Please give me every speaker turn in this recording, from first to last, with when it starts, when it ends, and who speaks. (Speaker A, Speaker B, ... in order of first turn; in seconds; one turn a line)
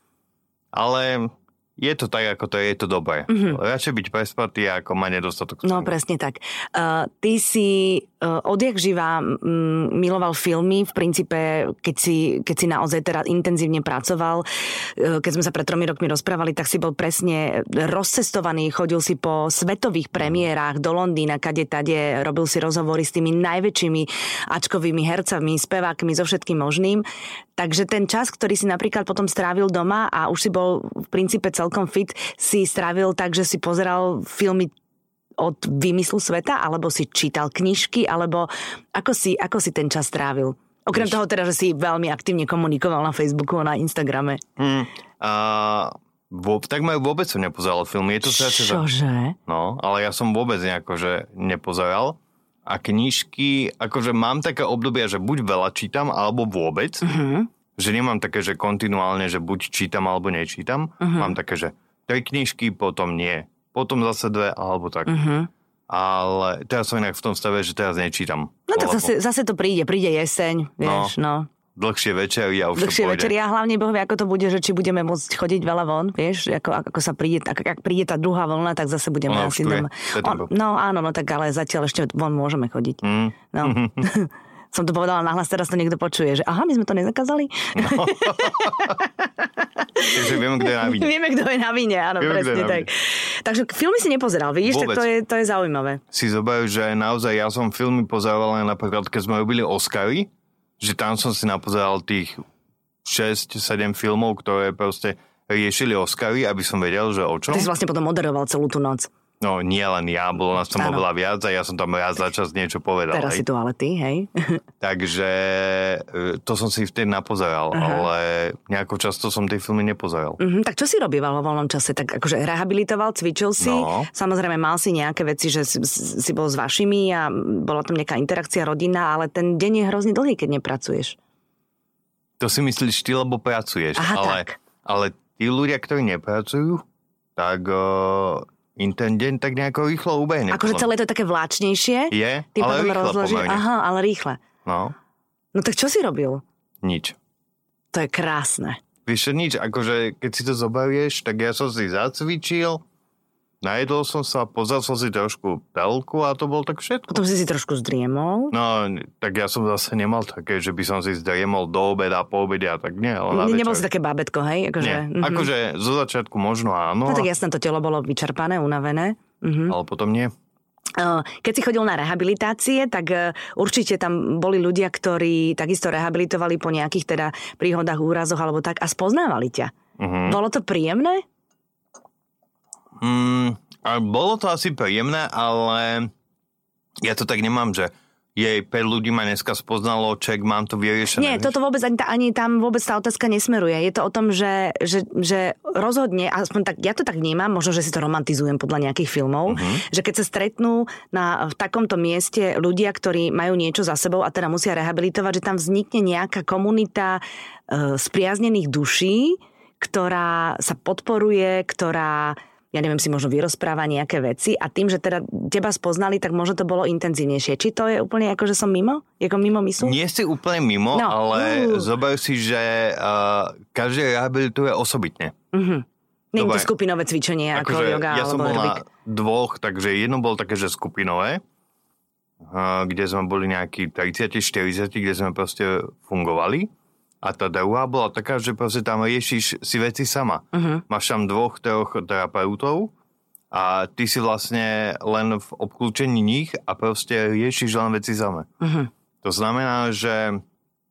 Speaker A: 0.7-5.9
Speaker B: 3.3-3.6
Speaker B: 5.6-14.4
Speaker B: 14.9-27.0
Speaker B: 27.6-34.7
Speaker B: 35.4-44.4
Speaker A: 44.6-48.8
Speaker B: 48.2-49.4
Speaker A: 49.5-57.0
Speaker B: 57.0-57.5
Speaker A: 57.8-65.1
Speaker B: 61.0-61.3
Speaker B: 65.0-65.5
Speaker A: 65.9-69.1
Speaker B: 68.7-71.5
Speaker A: 70.8-71.1
Speaker A: 71.7-73.3
Speaker B: 72.8-96.0
Speaker A: 79.3-80.5
Speaker A: 83.0-84.1
Speaker A: 87.7-89.0
Speaker A: 90.1-91.1
Speaker A: 92.2-92.9
Speaker A: 94.6-95.1
Speaker A: 96.1-102.4
Speaker A: 103.0-107.7
Speaker B: 107.5-109.1
Speaker A: 109.4-113.4
Speaker B: 110.8-111.0
Speaker B: 113.1-114.6
Speaker A: 114.8-120.4
Speaker B: 117.7-118.0
Speaker B: 120.4-131.2
Speaker A: 123.6-124.1
Speaker A: 132.4-136.8
Speaker B: 133.9-134.6
Speaker A: 137.3-140.8
Speaker B: 140.5-144.4
Speaker A: 142.1-143.6
Speaker A: 144.6-144.9
Speaker B: 145.5-146.4
Speaker A: 146.8-147.2
Speaker B: 147.9-148.8
Speaker A: 149.1-152.8
Speaker A: 153.6-157.2
Speaker B: 157.1-158.5
Speaker A: 158.5-163.8
Speaker B: 163.3-165.5
Speaker A: 164.8-167.3
Speaker B: 167.0-169.7
Speaker A: 169.7-170.3
Speaker B: 171.0-179.7
Speaker A: 180.0-180.4
Speaker B: 180.2-181.2
Speaker A: 183.0-186.1
Speaker A: 187.0-191.5
Speaker B: 191.1-219.9
Speaker A: 199.5-199.8
Speaker A: 219.8-225.3
Speaker B: 220.9-221.9
Speaker B: 225.5-228.8
Speaker A: 226.4-226.7
Speaker A: 227.5-231.4
Speaker A: 232.4-236.7
Speaker A: 237.2-242.9
Speaker B: 240.5-240.8
Speaker A: 243.5-248.5
Speaker B: 248.6-248.9
Speaker A: 249.2-250.4